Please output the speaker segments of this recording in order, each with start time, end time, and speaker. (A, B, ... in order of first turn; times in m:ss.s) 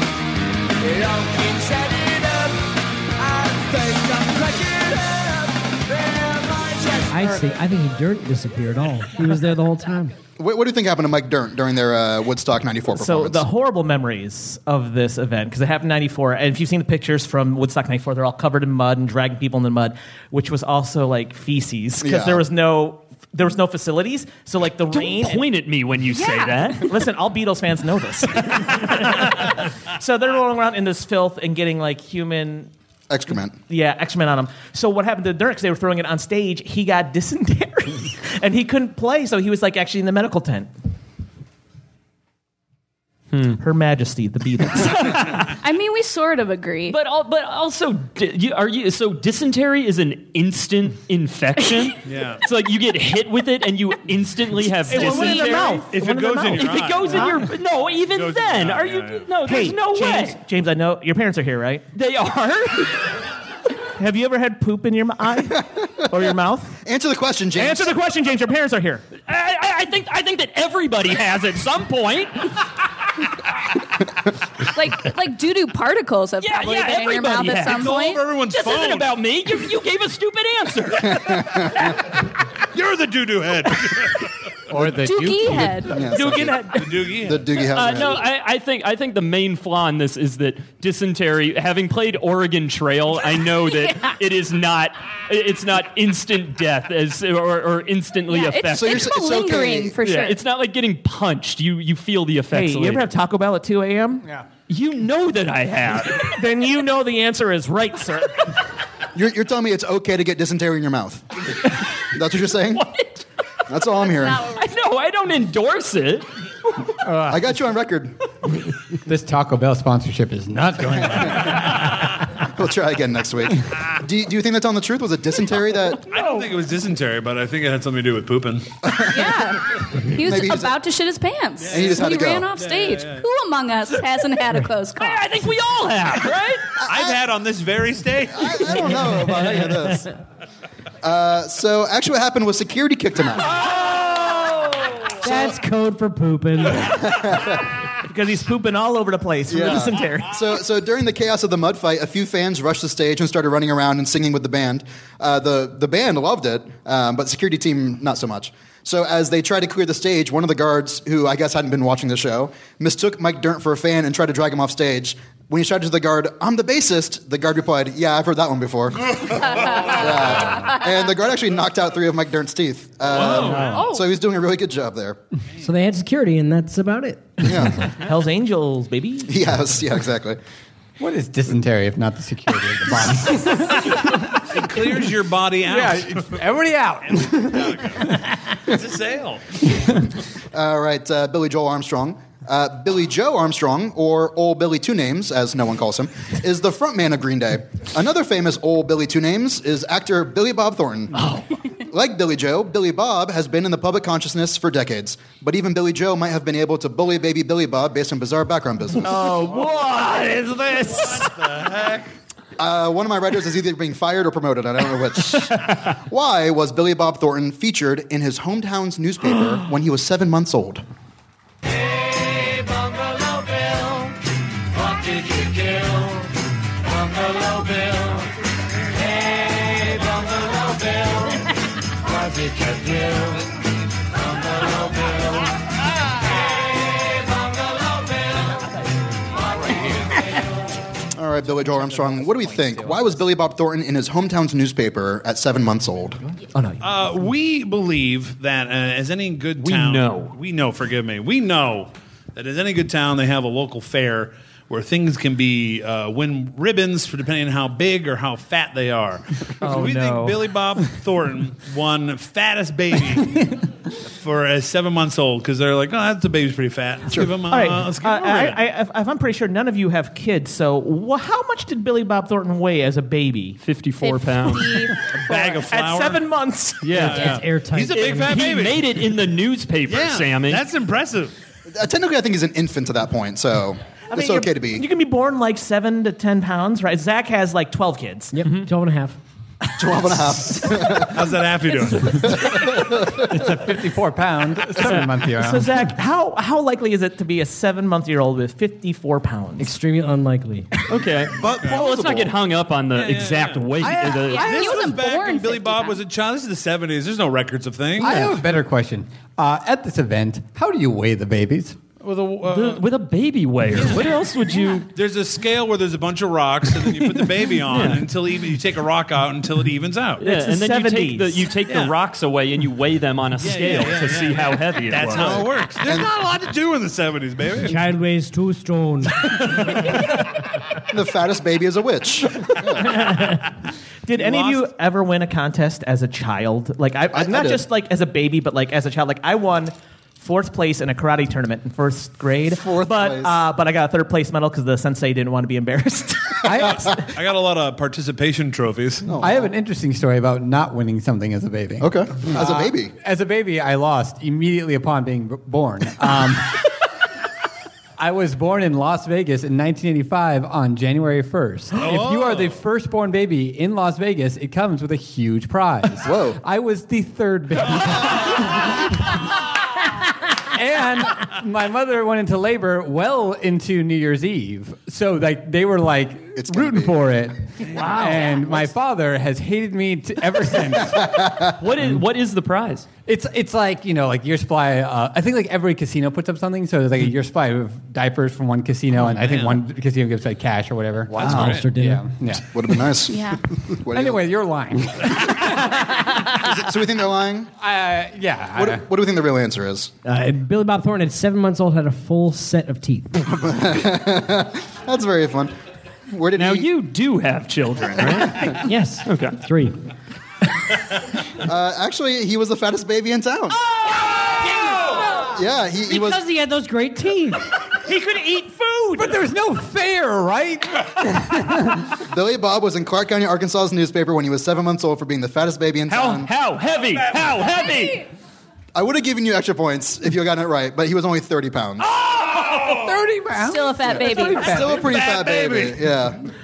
0:00.8-0:07.4 A
0:07.1-0:10.1 B
0:10.4-0:13.4 C
0:12.9-0:25.4 D
0:22.0-0:22.4 C
0:24.9-0:26.9 E
0:26.1-0:26.9 F
0:26.8-0:32.7 D
0:33.1-0:33.6 C
0:33.7-0:40.7 D
0:43.6-0:45.5 D
0:45.5-0:47.0 F
0:46.9-0:55.9 E
0:52.0-0:52.4 G
0:54.9-0:57.4 D
0:55.9-0:57.3 G
0:56.5-1:00.4 E
0:58.1-0:59.3 G
0:59.4-1:01.8 D
1:01.9-1:03.0 E
1:04.0-1:06.7 D
1:05.8-1:06.0 C
1:06.8-1:07.9 C
1:07.5-1:09.0 D
1:09.2-1:12.5 E
1:14.6-1:18.2 F
1:16.4-1:21.9 E
1:17.6-1:19.2 G
1:22.7-1:24.3 G
1:24.7-1:25.9 H
1:25.0-1:26.0 F
1:25.8-1:28.2 C
1:26.2-1:26.6 D
1:26.7-1:27.5 G
1:27.7-1:39.1 E
1:38.3-1:40.4 F
1:38.7-1:40.0 C
1:40.0-1:43.1 E
1:42.5-1:44.2 D
1:44.7-1:46.4 E
1:46.2-1:48.4 D
1:49.1-1:51.3 C
1:51.9-1:53.0 C
1:53.7-1:54.5 C
1:54.4-1:56.3 E
1:57.0-1:57.4 H
1:57.3-1:58.2 C
1:59.0-2:02.0 H
2:02.4-2:06.0 C
2:06.1-2:08.7 G
2:06.1-2:06.5 E
2:08.8-2:09.4 C
2:09.1-2:15.3 F
2:10.1-2:10.8 C
2:11.6-2:13.3 G
2:11.7-2:12.5 C
2:15.0-2:16.7 E
2:16.8-2:17.2 C
2:16.8-2:18.9 G
2:18.3-2:20.1 C
2:21.0-2:23.6 C
2:25.2-2:27.2 B
2:26.8-2:27.6 C
2:28.0-2:30.3 D
2:29.5-2:55.2 C
2:53.1-2:53.8 G
2:53.7-2:54.0 F
2:55.6-2:57.7 B
2:57.4-2:57.9 C
2:58.0-2:59.3 D
2:59.2-3:00.4 C
3:01.0-3:04.4 H
3:04.5-3:06.4 G
3:05.6-3:07.9 H
3:07.1-3:09.6 G
3:10.5-3:21.3 C
3:21.8-3:29.3 C
3:29.0-3:31.1 E
3:29.3-3:29.9 G
3:30.8-3:32.1 G
3:32.6-3:40.8 C
3:44.8-3:46.0 A
3:47.0-3:47.9 A
3:49.8-3:50.9 A
4:01.1-4:06.2 C
4:01.6-4:03.1 H
4:06.8-4:23.6 G
4:09.6-4:10.3 E
4:19.6-4:20.4 D
4:24.2-4:28.6 G
4:27.5-4:33.6 D
4:33.6-4:34.9 E
4:34.0-4:35.6 F
4:35.1-4:36.3 G
4:35.7-4:37.1 D
4:36.8-4:37.4 E
4:36.9-4:38.3 B
4:36.9-4:39.0 G
4:37.9-4:40.6 E
4:39.9-4:41.3 G
4:41.7-4:44.9 C
4:44.1-4:48.4 D
4:48.4-4:49.2 B
4:49.8-4:51.4 C
4:51.0-4:52.6 G
4:52.1-4:53.5 C
4:53.1-4:55.7 H
4:55.4-4:59.7 D
4:59.6-5:00.7 B
5:00.9-5:04.7 E
5:01.4-5:02.4 C
5:03.0-5:08.4 G
5:03.8-5:04.4 H
5:04.2-5:06.0 F
5:08.0-5:11.8 H
5:12.0-5:12.8 G
5:12.5-5:14.9 E
5:13.7-5:14.1 G
5:14.9-5:20.2 G
5:17.7-5:18.0 E
5:20.2-5:25.4 E
5:20.2-5:21.5 D
5:23.4-5:27.9 G
5:25.2-5:26.1 C
5:27.6-5:29.9 B
5:30.9-5:33.0 C
5:34.1-5:46.6 D
5:34.1-5:34.7 G
5:37.1-5:37.6 C
5:42.5-5:43.4 C
5:46.4-5:46.9 H
5:46.6-5:49.1 G
5:49.1-5:49.5 C
5:49.2-5:56.6 H
5:51.8-5:52.9 C
5:58.0-6:09.1 H
6:01.8-6:02.6 G
6:06.0-6:06.4 C
6:10.5-6:21.3 H
6:16.4-6:17.0 C
6:17.8-6:18.2 E
6:20.9-6:21.5 C
6:21.6-6:22.9 E
6:23.1-6:32.8 H
6:29.0-6:29.6 G
6:31.1-6:32.1 B
6:31.2-6:31.6 G
6:32.5-6:34.2 C
6:33.1-6:33.4 F
6:33.9-6:36.4 H
6:36.4-6:37.5 C
6:37.6-6:38.8 H
6:38.6-6:39.9 C
6:40.0-6:43.2 B
6:43.2-6:45.5 C
6:46.1-6:46.7 C
6:46.4-6:49.4 E
6:48.6-6:49.8 B
6:51.4-6:53.6 C
6:55.3-6:56.2 C
6:55.9-6:57.5 B
6:57.8-6:59.2 D
6:59.0-7:01.9 H
7:02.0-7:06.3 C
7:05.9-7:08.0 E
7:08.7-7:11.9 C
7:12.0-7:15.0 H
7:13.4-7:14.6 F
7:13.9-7:16.2 C
7:14.6-7:15.8 G